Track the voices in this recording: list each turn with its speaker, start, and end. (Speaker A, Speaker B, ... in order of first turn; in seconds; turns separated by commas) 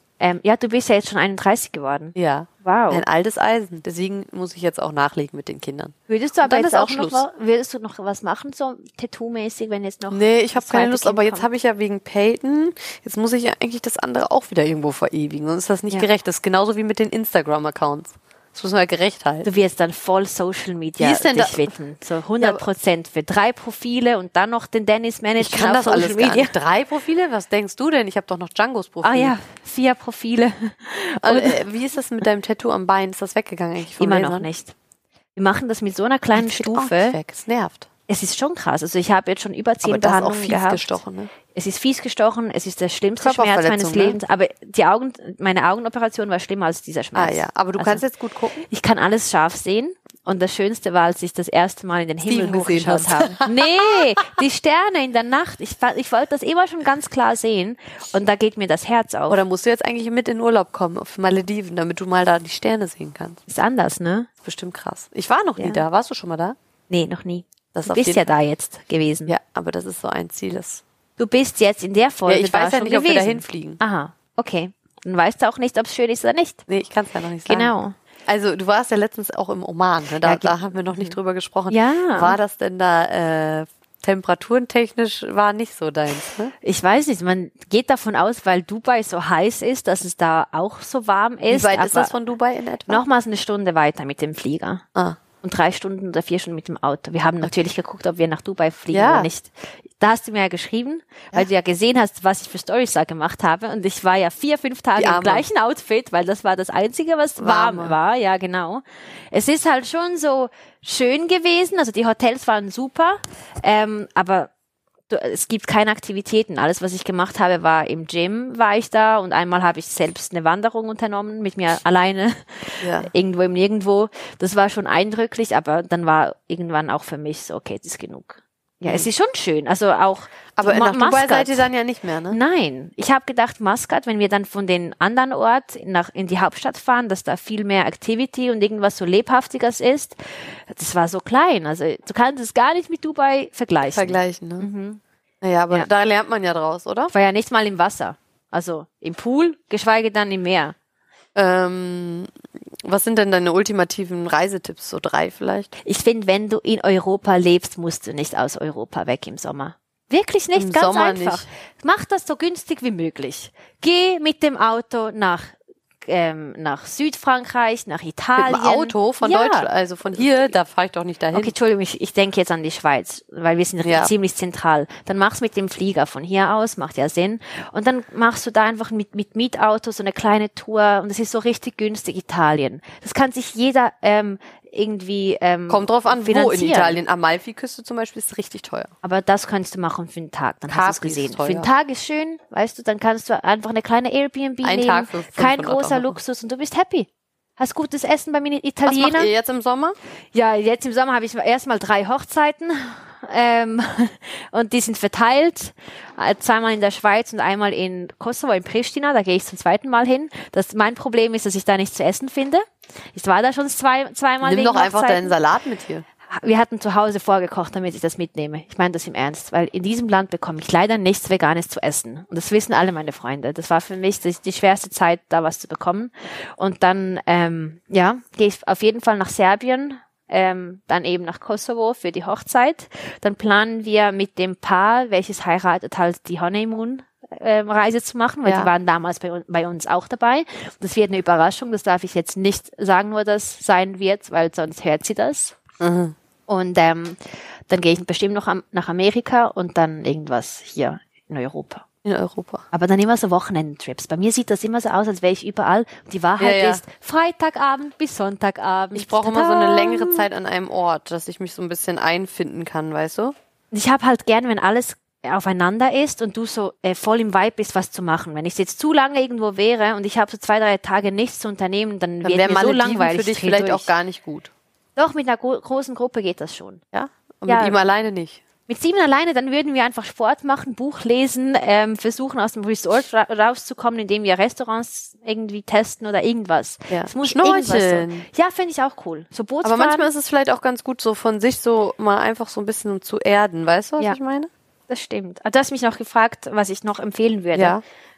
Speaker A: 0.2-3.0, Speaker B: 2.2-7.2, Speaker A: 6.1-11.5, Speaker B: 10.1-19.5, Speaker A: 19.4-26.5, Speaker B: 21.0-21.7, Speaker B: 25.4-29.4, Speaker A: 29.0-31.6, Speaker B: 31.2-34.5, Speaker A: 34.0-34.7, Speaker A: 35.4-37.2, Speaker B: 36.4-37.9, Speaker A: 38.1-41.0, Speaker B: 39.8-41.3, Speaker A: 41.5-48.0, Speaker B: 43.2-44.2, Speaker B: 47.1-48.7, Speaker A: 48.7-59.4, Speaker B: 52.3-53.7, Speaker B: 59.3-63.4, Speaker A: 63.5-64.3, Speaker B: 64.4-66.6, Speaker A: 65.6-65.8, Speaker A: 66.9-69.3, Speaker B: 67.7-68.2, Speaker B: 69.3-70.8, Speaker A: 71.2-76.7, Speaker B: 72.3-73.8, Speaker B: 76.7-77.7, Speaker A: 77.5-78.0, Speaker B: 78.3-86.5, Speaker A: 80.2-81.2, Speaker A: 81.7-82.4, Speaker A: 86.6-92.1, Speaker B: 91.5-93.0, Speaker A: 92.9-94.8, Speaker B: 95.0-95.2, Speaker A: 95.4-114.5, Speaker B: 98.9-99.3, Speaker B: 105.0-105.4, Speaker B: 107.4-108.0, Speaker A: 115.1-131.7, Speaker B: 122.8-123.1, Speaker B: 130.6-132.4, Speaker A: 132.3-145.0, Speaker B: 143.9-144.7, Speaker B: 145.4-147.1, Speaker A: 147.1-150.8, Speaker B: 151.4-152.3, Speaker B: 152.8-155.7, Speaker A: 155.8-169.7, Speaker B: 160.6-161.5, Speaker B: 168.4-171.5, Speaker A: 171.3-187.0, Speaker B: 173.8-174.1, Speaker B: 185.7-188.9, Speaker A: 189.0-199.3, Speaker B: 190.7-191.7, Speaker B: 194.6-196.2, Speaker B: 198.9-200.0, Speaker A: 200.3-215.3, Speaker B: 214.4-216.1, Speaker A: 216.3-245.6, Speaker B: 238.5-238.7, Speaker B: 245.8-246.2, Speaker A: 246.5-251.8, Speaker B: 252.0-252.7, Speaker A: 252.7-260.3, Speaker B: 256.4-256.8, Speaker B: 258.9-263.3, Speaker A: 263.7-273.9, Speaker B: 272.2-274.5, Speaker A: 275.0-276.8, Speaker B: 276.9-278.4, Speaker A: 277.5-277.8, Speaker A: 278.7-290.1, Speaker B: 286.9-288.3, Speaker B: 289.6-294.5, Speaker A: 294.9-297.8, Speaker B: 297.6-297.8